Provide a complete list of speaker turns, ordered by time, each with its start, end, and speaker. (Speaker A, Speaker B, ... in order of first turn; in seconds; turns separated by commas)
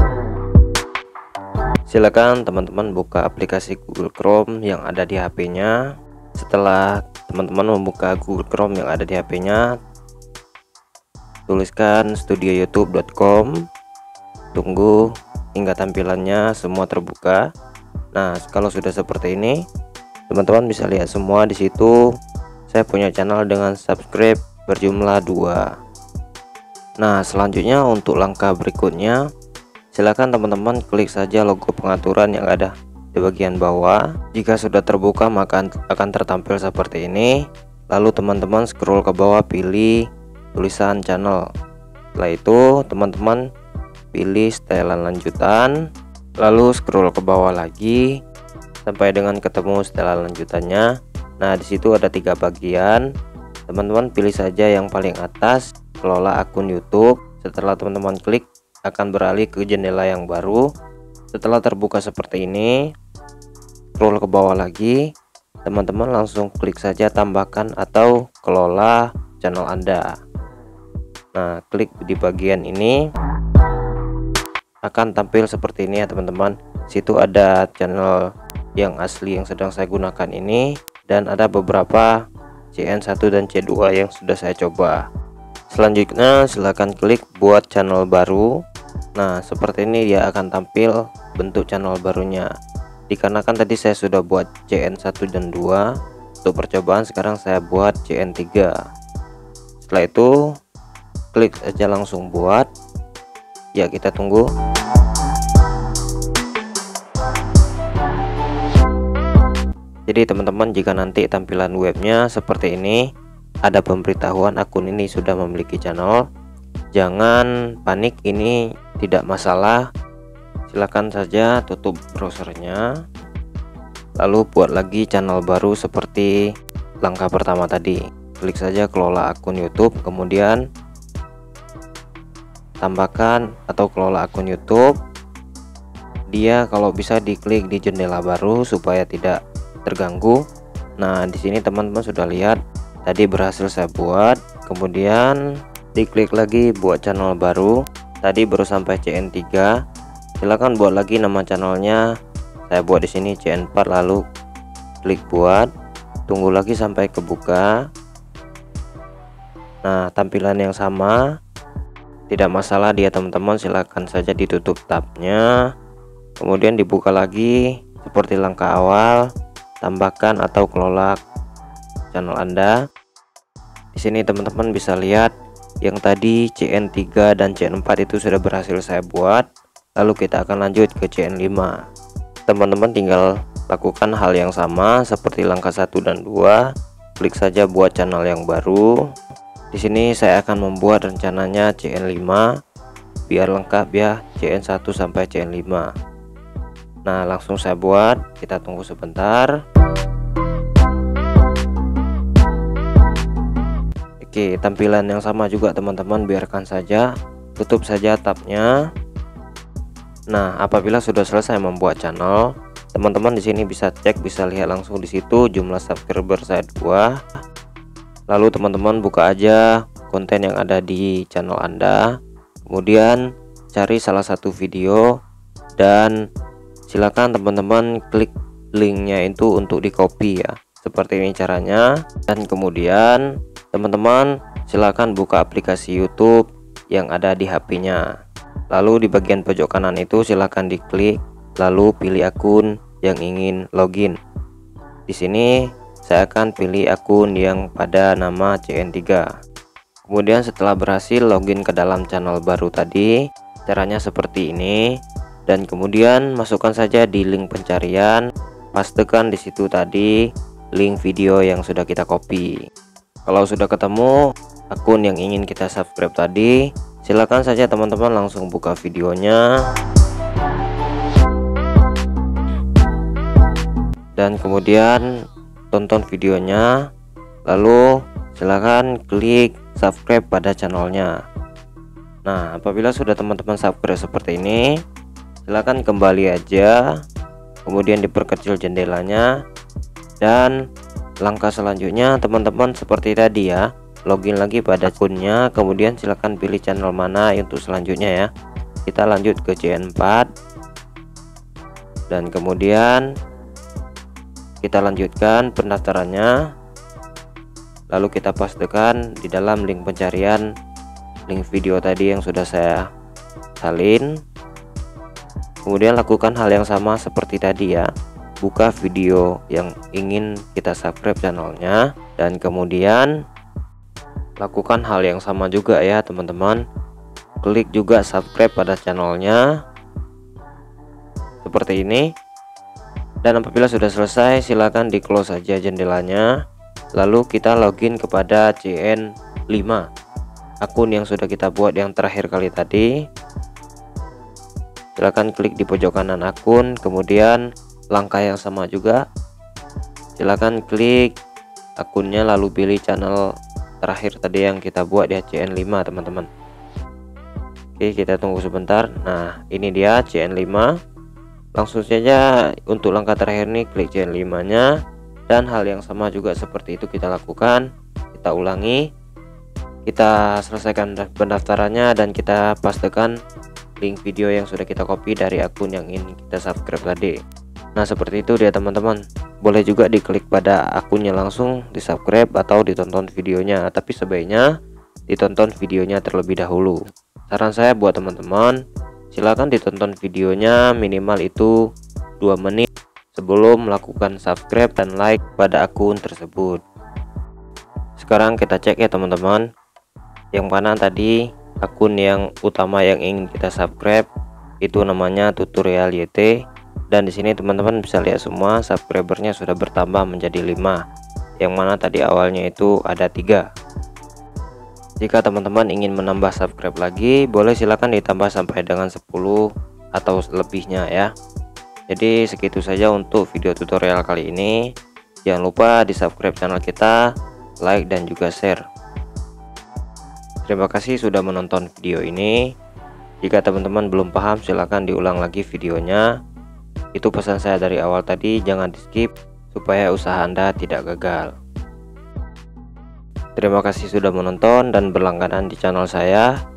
Speaker A: 1.9-5.8, Speaker A: 6.4-9.7, Speaker A: 11.5-13.6, Speaker A: 14.6-15.0, Speaker A: 15.6-17.4, Speaker A: 18.1-19.6, Speaker A: 20.3-22.0, Speaker A: 22.7-25.6, Speaker A: 27.0-29.2, Speaker A: 29.9-37.3, Speaker A: 37.9-40.0, Speaker A: 40.6-41.4, Speaker A: 42.2-43.4, Speaker A: 44.1-45.8, Speaker A: 46.4-48.1, Speaker A: 48.9-50.9, Speaker A: 51.4-53.1, Speaker A: 53.7-60.7, Speaker A: 61.3-62.8, Speaker A: 64.0-65.0, Speaker A: 65.7-70.1, Speaker A: 71.3-73.0, Speaker A: 74.9-78.2, Speaker A: 78.8-82.1, Speaker A: 82.7-85.0, Speaker A: 85.7-88.5, Speaker A: 89.2-92.5, Speaker A: 93.1-95.8, Speaker A: 96.4-98.7, Speaker A: 99.8-100.3, Speaker A: 101.3-102.7, Speaker A: 103.8-104.4, Speaker A: 110.1-113.0, Speaker A: 113.7-116.2, Speaker A: 117.0-119.8, Speaker A: 120.7-122.8, Speaker A: 124.2-126.4, Speaker A: 127.0-130.6, Speaker A: 132.8-134.9, Speaker A: 136.3-140.4, Speaker A: 141.0-145.4, Speaker A: 146.0-149.7, Speaker A: 150.4-152.0, Speaker A: 152.7-154.2, Speaker A: 155.0-155.7, Speaker A: 156.3-157.7, Speaker A: 159.8-161.2, Speaker A: 162.3-165.4, Speaker A: 166.4-169.2, Speaker A: 169.8-171.2, Speaker A: 172.1-172.8, Speaker A: 174.0-175.3, Speaker A: 175.8-179.5, Speaker A: 180.0-181.8, Speaker A: 182.5-186.6, Speaker A: 187.2-189.0, Speaker A: 189.7-192.5, Speaker A: 193.3-195.9, Speaker A: 197.1-199.5, Speaker A: 204.2-207.1, Speaker A: 207.6-208.7, Speaker A: 210.3-217.1, Speaker A: 218.3-222.0, Speaker A: 222.7-223.2, Speaker A: 223.7-225.1, Speaker A: 225.8-226.2, Speaker A: 226.9-238.0, Speaker A: 238.7-244.2, Speaker A: 245.1-245.6, Speaker A: 246.1-249.3, Speaker A: 250.1-253.1, Speaker A: 253.7-254.8, Speaker A: 255.5-260.1, Speaker A: 260.8-262.5, Speaker A: 263.3-264.1, Speaker A: 264.7-269.6, Speaker A: 274.2-275.1, Speaker A: 275.7-276.7, Speaker A: 277.5-281.1, Speaker A: 282.3-284.7, Speaker A: 285.5-287.0, Speaker A: 287.7-289.3, Speaker A: 290.2-290.6, Speaker A: 291.2-298.3, Speaker A: 298.9-300.3, Speaker A: 302.1-303.1, Speaker A: 304.6-306.3, Speaker A: 307.9-310.5, Speaker A: 311.3-312.9, Speaker A: 313.6-314.1, Speaker A: 315.7-317.9, Speaker A: 318.4-323.1, Speaker A: 324.4-326.6, Speaker A: 327.4-329.4, Speaker A: 331.4-332.1, Speaker A: 333.2-336.3, Speaker A: 337.0-339.9, Speaker A: 340.6-342.9, Speaker A: 345.0-349.0, Speaker A: 350.2-351.1, Speaker A: 351.8-353.2, Speaker A: 353.8-356.3, Speaker A: 357.8-360.7, Speaker A: 361.6-364.7, Speaker A: 365.3-368.8, Speaker A: 369.9-373.1, Speaker A: 373.8-377.2, Speaker A: 377.8-384.5, Speaker A: 385.1-386.8, Speaker A: 387.3-388.6, Speaker A: 389.1-391.5, Speaker A: 392.2-396.6, Speaker A: 398.0-399.4, Speaker A: 400.3-404.1, Speaker A: 404.6-406.3, Speaker A: 406.9-410.8, Speaker A: 411.4-413.4, Speaker A: 415.0-419.4, Speaker A: 420.0-421.1, Speaker A: 421.9-424.6, Speaker A: 425.3-427.0, Speaker A: 427.6-428.6, Speaker A: 430.5-432.4, Speaker A: 433.2-436.1, Speaker A: 437.0-441.3, Speaker A: 443.4-446.3